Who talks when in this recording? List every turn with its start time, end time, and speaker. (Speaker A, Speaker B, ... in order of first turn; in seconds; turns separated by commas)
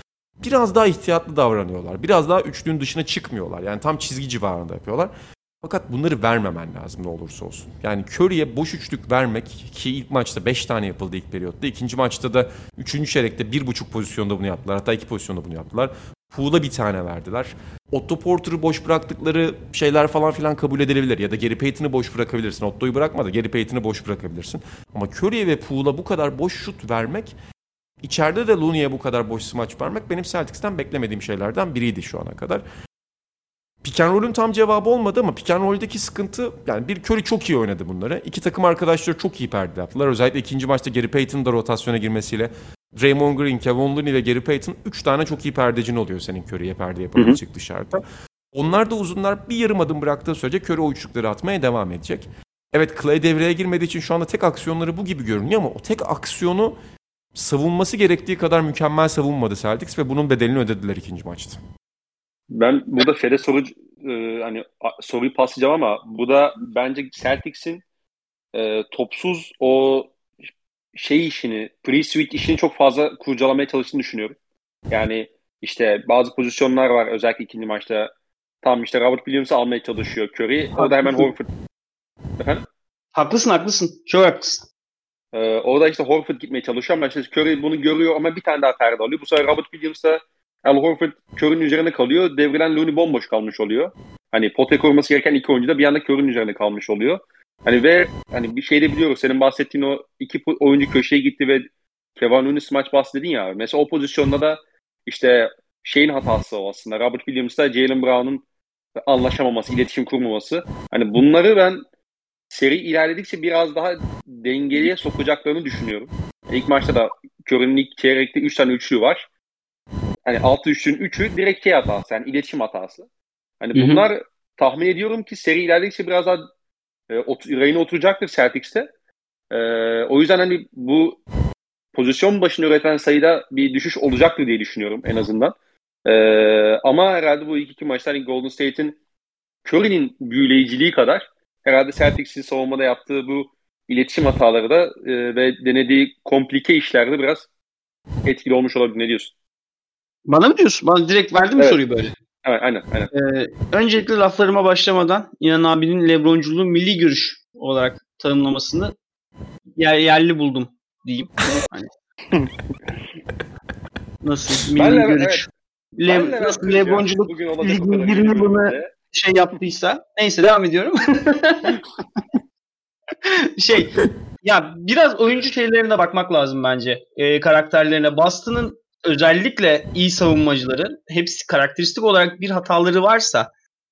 Speaker A: 0.4-5.1, Speaker A: 5.6-27.3, Speaker A: 28.0-32.6, Speaker A: 33.8-48.0, Speaker A: 48.5-56.7, Speaker A: 57.3-61.6, Speaker B: 62.5-67.8, Speaker B: 68.5-70.2, Speaker B: 70.9-74.3, Speaker B: 74.9-78.1, Speaker B: 78.6-81.5, Speaker C: 80.8-81.3, Speaker B: 82.4-82.6, Speaker C: 83.1-84.7, Speaker B: 85.3-108.4, Speaker B: 109.0-111.8, Speaker B: 112.5-119.2, Speaker B: 120.2-123.0, Speaker B: 123.6-126.4, Speaker C: 123.7-124.1, Speaker B: 127.1-128.9, Speaker B: 129.5-131.2, Speaker B: 131.9-139.0, Speaker B: 139.6-147.4, Speaker B: 148.2-149.3, Speaker C: 150.3-152.1, Speaker B: 152.4-153.1, Speaker C: 153.1-158.9, Speaker C: 159.8-161.9, Speaker C: 164.2-165.4, Speaker B: 164.8-165.4, Speaker C: 166.0-171.8, Speaker B: 166.1-168.9, Speaker C: 173.2-183.5